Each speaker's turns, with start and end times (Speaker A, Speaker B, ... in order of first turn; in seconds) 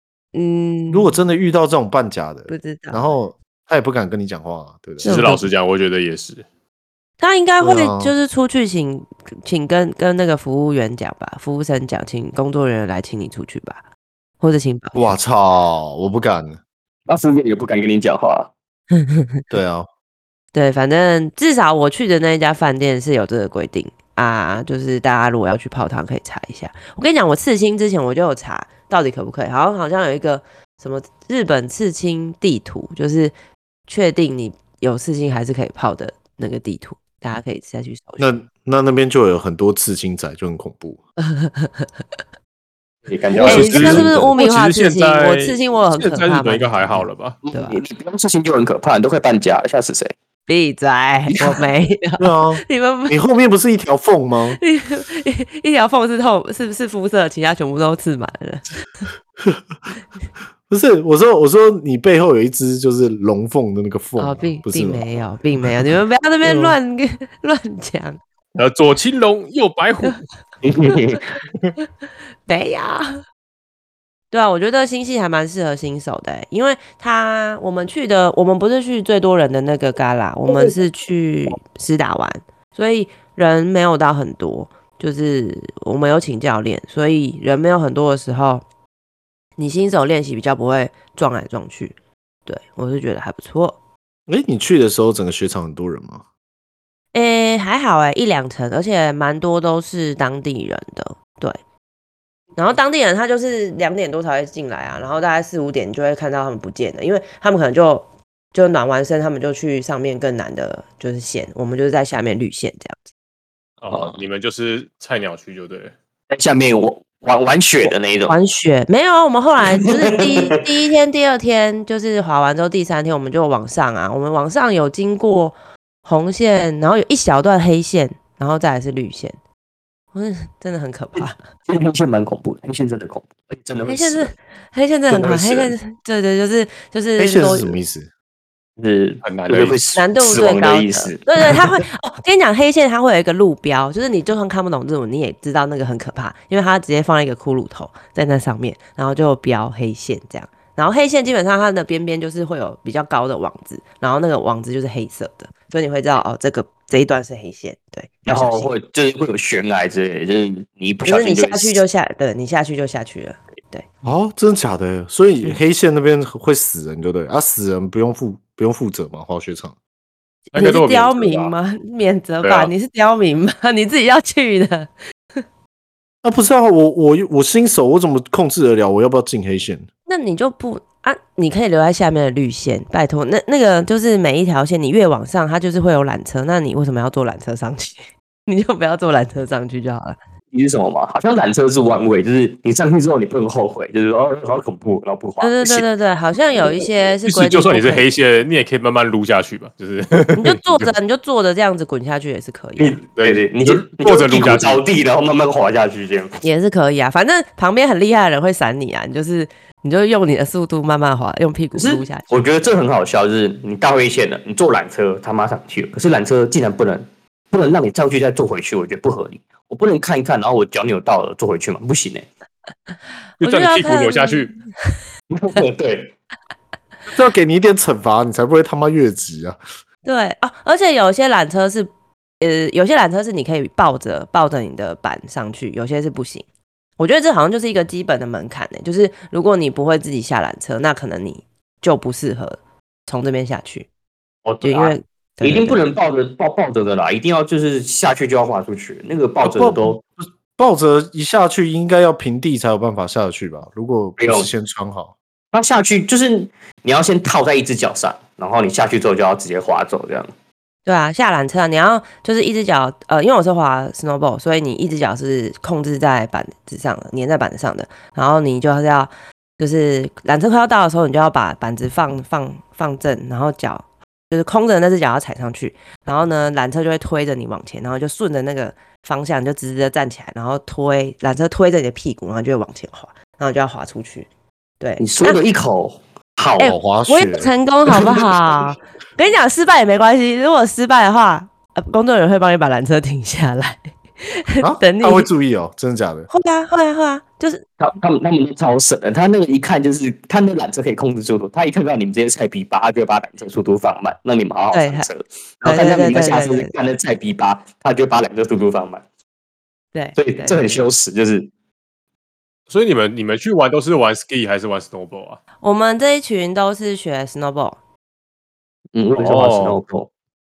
Speaker A: 0.3-1.2, 2.5-3.1, 5.0-5.4, 7.2-13.8, 14.4-15.0, 19.0-19.3, 20.5-33.3, 33.9-38.3, 41.2-41.9, 43.4-47.8, 50.5-53.2, 54.6-59.1, 64.2-68.2, 72.5-73.1, 74.3-88.6, 89.6-93.8, 97.1-101.6, 102.6-113.0, 118.3-129.4, 130.1-131.4, 133.9-137.8, 139.9-158.7, 161.1-163.8, 170.5-175.4, 180.1-190.2, 195.4-198.1, 200.3-203.0, 206.4-212.3, 223.4-224.9, 230.0-236.4, 237.0-243.9, 244.6-245.8, 260.9-284.3, 284.8-285.4, 286.6-295.3, 296.3-297.6, 304.7-305.1, 305.6-306.7, 309.9-310.9, 315.6-317.8
Speaker B: 0.9-5.4, 7.6-8.2, 14.9-16.6, 19.5-19.9, 38.2-41.0, 43.4-44.3, 52.2-54.6, 60.7-65.2, 94.3-96.2, 137.2-138.1, 164.0-169.8, 176.2-179.9, 227.1-229.6, 249.4-255.1, 286.6-287.5, 294.6-296.3
Speaker C: 5.0-6.5, 43.4-47.4, 68.5-70.2, 113.8-115.9, 139.2-139.8, 170.5-171.5, 172.4-172.7, 197.2-200.9, 203.2-204.8, 223.4-224.5, 312.7-315.4, 319.1-319.8
Speaker D: 17.1-18.5, 43.1-44.1, 47.4-50.1, 51.3-51.6, 70.6-71.3, 80.5-80.7, 113.9-114.2, 116.3-118.4, 119.8-120.6, 131.7-134.3, 135.1-135.8, 138.8-141.7, 158.3-161.8, 190.5-195.9, 202.8-206.4, 211.8-222.3, 225.3-226.1, 244.4-250.0, 254.2-254.5, 255.5-260.3, 285.0-286.8, 297.8-309.0, 310.2-311.5, 318.9-320.1